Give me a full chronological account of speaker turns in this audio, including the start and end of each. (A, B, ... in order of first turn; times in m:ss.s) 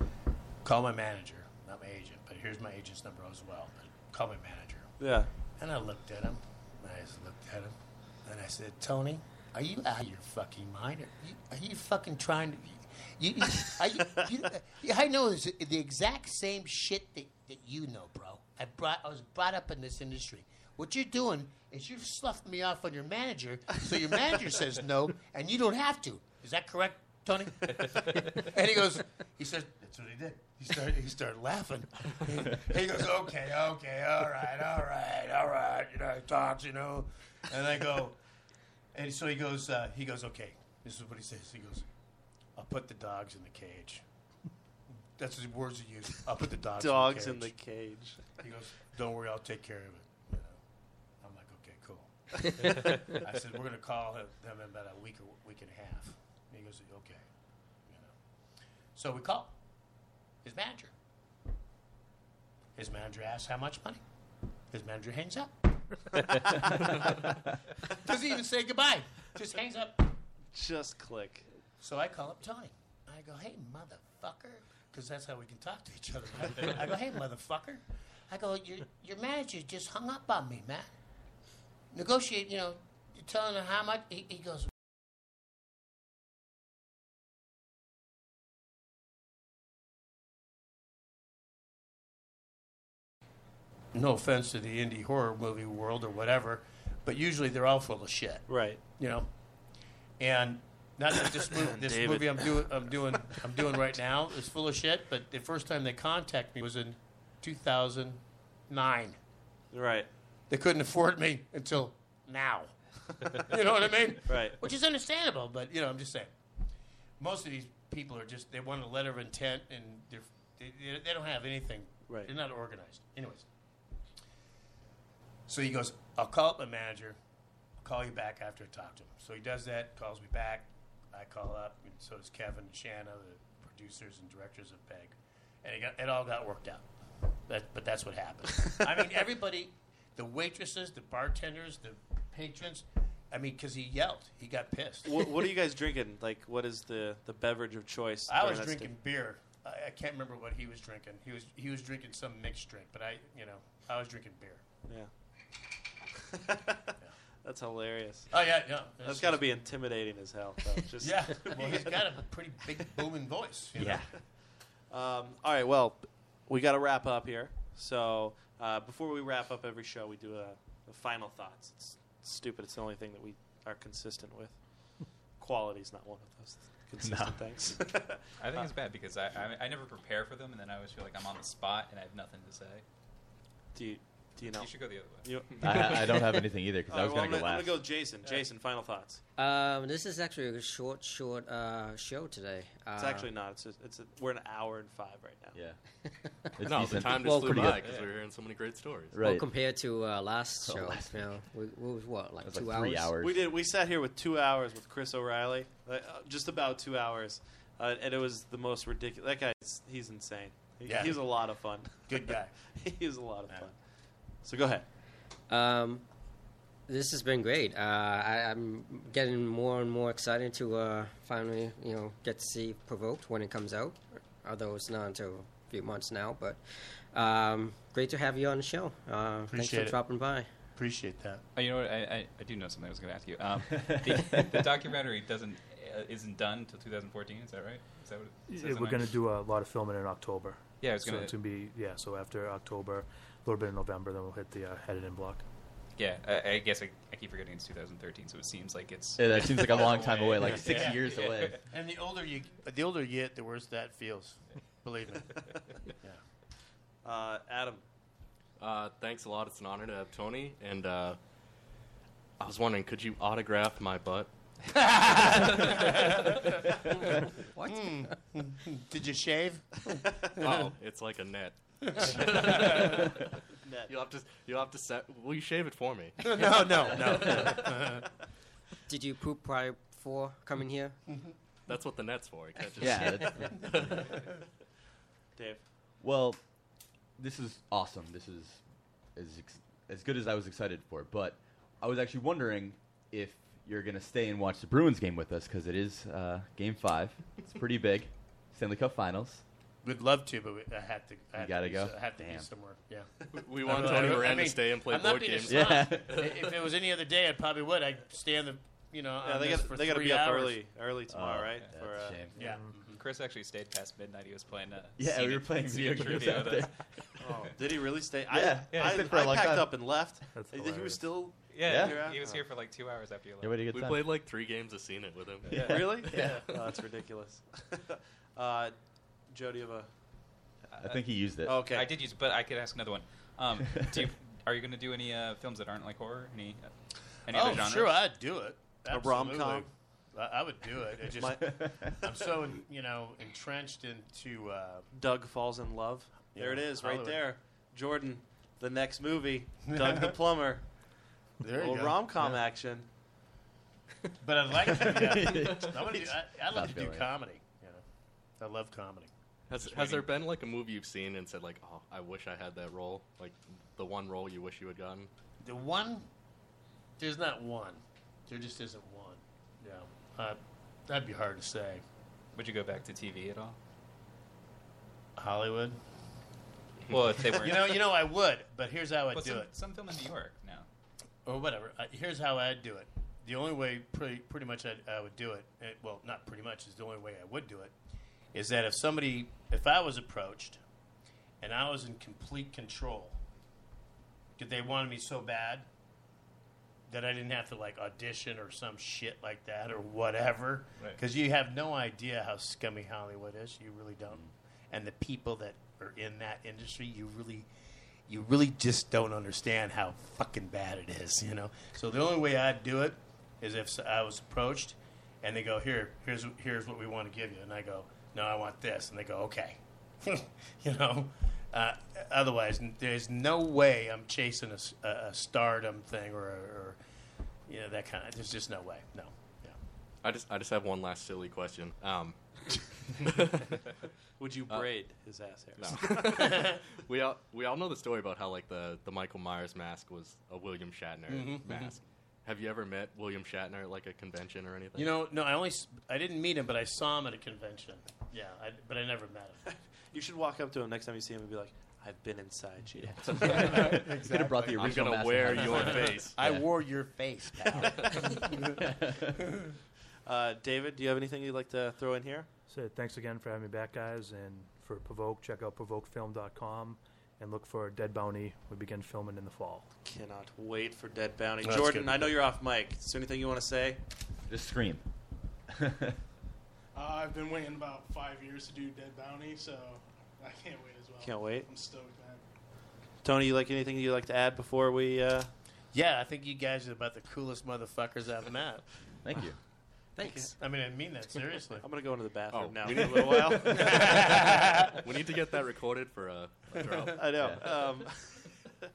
0:00.6-0:05.0 A
0:05.0-0:05.3 B
0:05.6-0:38.2 A
0:38.9-0:41.9 A
0:42.6-0:44.0 A
0:45.2-0:47.5 A
0:46.8-0:48.4 B
0:48.4-0:50.6 A
0:51.2-0:57.2 A
0:57.9-0:58.1 A
0:59.0-0:59.6 A
1:00.4-1:00.9 A
1:02.8-1:04.0 A
1:04.7-1:07.2 A
1:08.0-1:10.1 A
1:10.5-1:11.5 B
1:11.8-1:20.9 A
1:21.9-1:24.7 A
1:33.9-1:39.3 A
1:38.5-1:38.8 B
1:40.2-1:49.2 A
1:41.6-1:42.7 B
1:49.7-1:50.1 B
1:50.5-1:56.3 A
1:54.3-1:54.6 B
1:57.2-2:03.5 A
2:05.5-2:07.2 A
2:07.8-2:16.9 A
2:17.5-2:25.2 A
2:25.1-2:28.9 B
2:28.3-2:34.7 A
2:36.3-2:36.9 B
2:37.4-2:38.4 B
2:38.3-2:39.4 A
2:39.0-2:42.0 B
2:41.0-2:44.0 A
2:43.8-2:44.1 C
2:44.9-2:58.7 B
2:57.0-2:57.5 C
2:58.4-3:02.8 D
3:03.8-3:09.2 B
3:04.5-3:06.0 D
3:05.6-3:07.8 C
3:09.4-3:13.3 E
3:13.0-3:15.6 B
3:15.5-3:15.8 C
3:16.4-3:17.8 C
3:16.6-3:19.2 F
3:17.2-3:17.7 E
3:17.8-3:18.1 B
3:19.1-3:19.5 C
3:19.2-3:23.1 E
3:20.6-3:21.4 C
3:22.4-3:23.5 C
3:23.2-3:33.8 B
3:30.9-3:32.5 A
3:34.4-3:34.8 B
3:35.5-3:36.1 E
3:36.9-3:50.5 E
3:49.5-3:50.0 A
3:50.7-3:51.4 A
3:51.6-3:59.1 D
3:53.9-3:54.4 C
3:58.5-4:05.4 G
4:00.8-4:01.4 D
4:06.0-4:11.6 D
4:09.2-4:11.6 C
4:09.9-4:10.2 B
4:10.4-4:16.2 A
4:17.0-4:17.8 B
4:18.6-4:21.2 F
4:22.4-4:26.2 F
4:25.0-4:26.7 A
4:27.7-4:30.5 A
4:30.4-4:33.3 F
4:32.0-4:32.7 A
4:32.5-4:33.0 B
4:33.6-4:33.9 B
4:33.9-4:37.8 F
4:36.2-4:38.1 A
4:38.9-4:41.2 E
4:41.7-4:44.3 F
4:42.8-4:44.1 C
4:45.4-4:45.6 B
4:46.0-4:46.4 C
4:47.2-4:48.6 C
4:49.1-4:59.4 C
4:59.8-5:10.6 A
5:01.4-5:02.5 C
5:03.3-5:06.4 F
5:05.5-5:06.4 C
5:09.2-5:12.2 B
5:11.1-5:12.6 C
5:12.4-5:13.0 A
5:12.4-5:12.7 G
5:12.9-5:17.5 D
5:15.0-5:16.9 C
5:17.2-5:22.4 B
5:18.3-5:19.7 C
5:18.7-5:19.1 D
5:20.3-5:21.1 G
5:21.5-5:23.6 D
5:21.6-5:22.1 C
5:23.4-5:24.2 C
5:23.7-5:26.4 F
5:25.5-5:26.5 C
5:25.5-5:28.8 B
5:29.3-5:29.9 B
5:30.7-5:31.0 D
5:30.8-5:31.6 C
5:31.5-5:31.9 B
5:31.6-5:36.7 D
5:37.2-5:38.1 D
5:37.3-5:44.9 A
5:38.9-5:39.7 B
5:41.2-5:42.3 B
5:44.9-5:50.8 B
5:46.3-5:47.2 A
5:49.7-5:50.2 A
5:51.4-5:52.3 A
5:51.6-5:52.9 B
5:54.2-5:57.8 A
5:54.8-5:57.1 C
5:58.4-6:00.0 A
5:59.5-6:05.1 F
6:05.4-6:06.1 A
6:07.0-6:11.8 A
6:12.3-6:13.6 D
6:15.2-6:15.8 A
6:16.9-6:17.8 D
6:17.4-6:19.5 A
6:19.1-6:20.7 D
6:21.2-6:27.7 A
6:28.3-6:30.6 A
6:31.4-6:33.2 A
6:34.4-6:35.7 A
6:36.9-6:47.5 A
6:48.1-7:06.8 A
7:07.5-7:09.6 A
7:10.0-7:13.8 F
7:14.2-7:16.2 B
7:15.6-7:24.9 F
7:16.1-7:16.6 A
7:21.1-7:21.7 A
7:24.8-7:29.5 A
7:29.9-7:33.8 B
7:32.8-7:36.6 C
7:33.1-7:38.7 A
7:34.6-7:36.2 F
7:37.6-7:38.0 F
7:38.6-7:39.0 C
7:39.2-7:39.4 A
7:40.0-7:42.3 B
7:42.5-7:49.7 G
7:49.8-7:53.8 B
7:51.4-7:52.1 A
7:54.3-7:54.8 C
7:55.5-7:56.0 C
7:56.8-8:02.2 H
8:01.0-8:01.5 B
8:03.0-8:05.3 B
8:05.7-8:08.7 A
8:09.0-8:09.4 C
8:10.0-8:10.4 E
8:10.0-8:10.3 B
8:10.4-8:11.7 A
8:11.6-8:14.1 B
8:12.3-8:17.4 F
8:13.5-8:14.8 A
8:17.0-8:18.4 B
8:17.2-8:17.5 C